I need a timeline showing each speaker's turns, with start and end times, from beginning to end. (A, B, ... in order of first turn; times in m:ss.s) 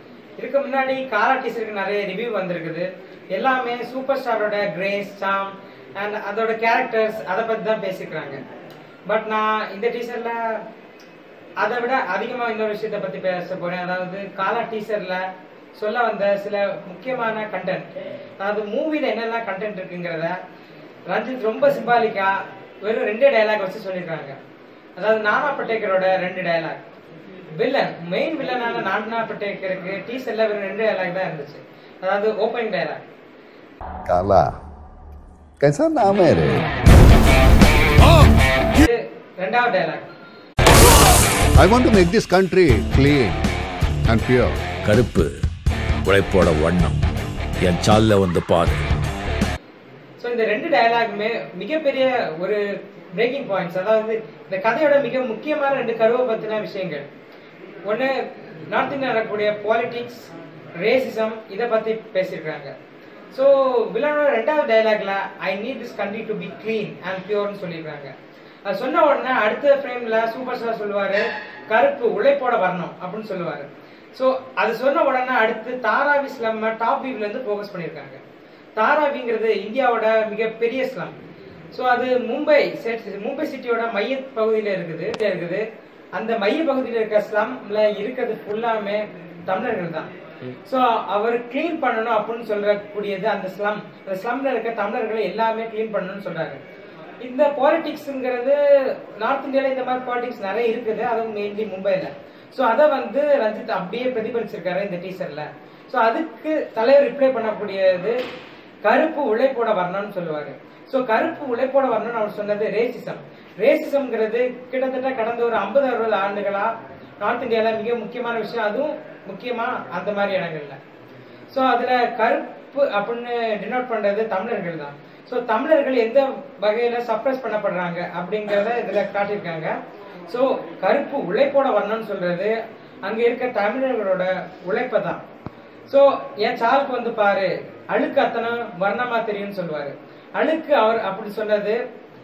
0:00.4-0:08.4 A
0:09.1-0:10.6 A
0:11.6-0:20.4 A
0:21.1-0:24.4 A
0:25.0-0:26.8 A
0:27.5-0:33.0 A
0:34.0-0:34.5 B
0:35.6-0:36.7 B
0:38.7-0:40.1 A
0:41.6-0:43.4 B
0:44.1-0:44.6 B
0:44.8-0:45.3 C
0:46.0-0:47.0 C
0:47.6-0:48.8 C
0:50.2-0:57.0 A
0:57.9-1:02.7 A
1:03.3-1:08.1 A
1:08.7-1:18.2 A
1:18.8-1:21.1 A
1:21.7-1:30.1 A
1:30.6-1:36.6 A
1:37.2-1:48.2 A
1:48.8-2:00.8 A
2:01.5-2:09.7 A
2:10.3-2:15.2 A
2:15.9-2:21.8 A